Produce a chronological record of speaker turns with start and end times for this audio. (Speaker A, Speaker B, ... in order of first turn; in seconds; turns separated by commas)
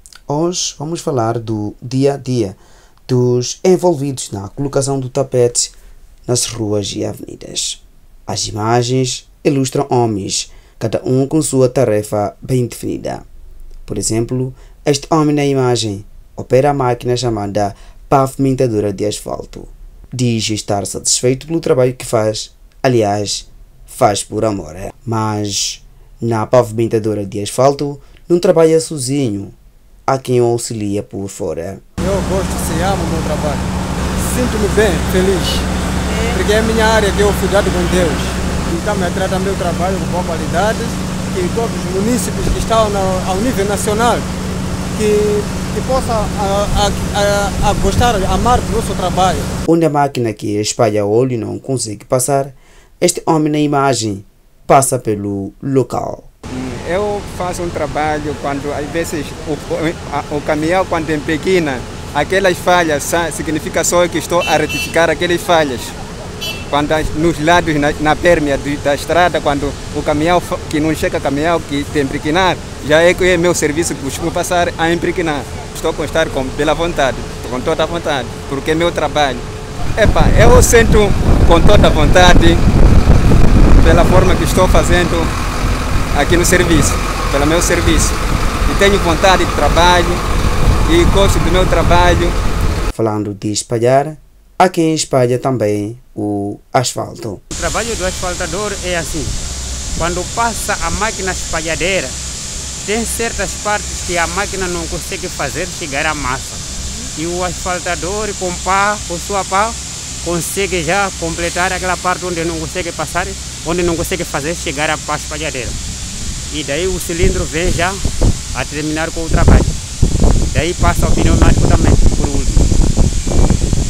Speaker A: 0.3-5.7, Speaker A: 6.2-13.2, Speaker A: 13.8-29.6, Speaker A: 30.1-31.8, Speaker B: 32.0-35.7, Speaker B: 36.3-44.3, Speaker B: 44.9-49.5, Speaker A: 49.7-56.3, Speaker C: 56.5-66.0, Speaker C: 66.7-82.6, Speaker C: 83.8-85.3, Speaker C: 86.1-90.2, Speaker C: 90.9-92.4, Speaker A: 92.9-97.4, Speaker D: 97.5-99.3, Speaker D: 100.0-102.2, Speaker D: 102.8-115.8, Speaker D: 116.5-118.0, Speaker D: 118.5-119.7, Speaker D: 120.5-122.7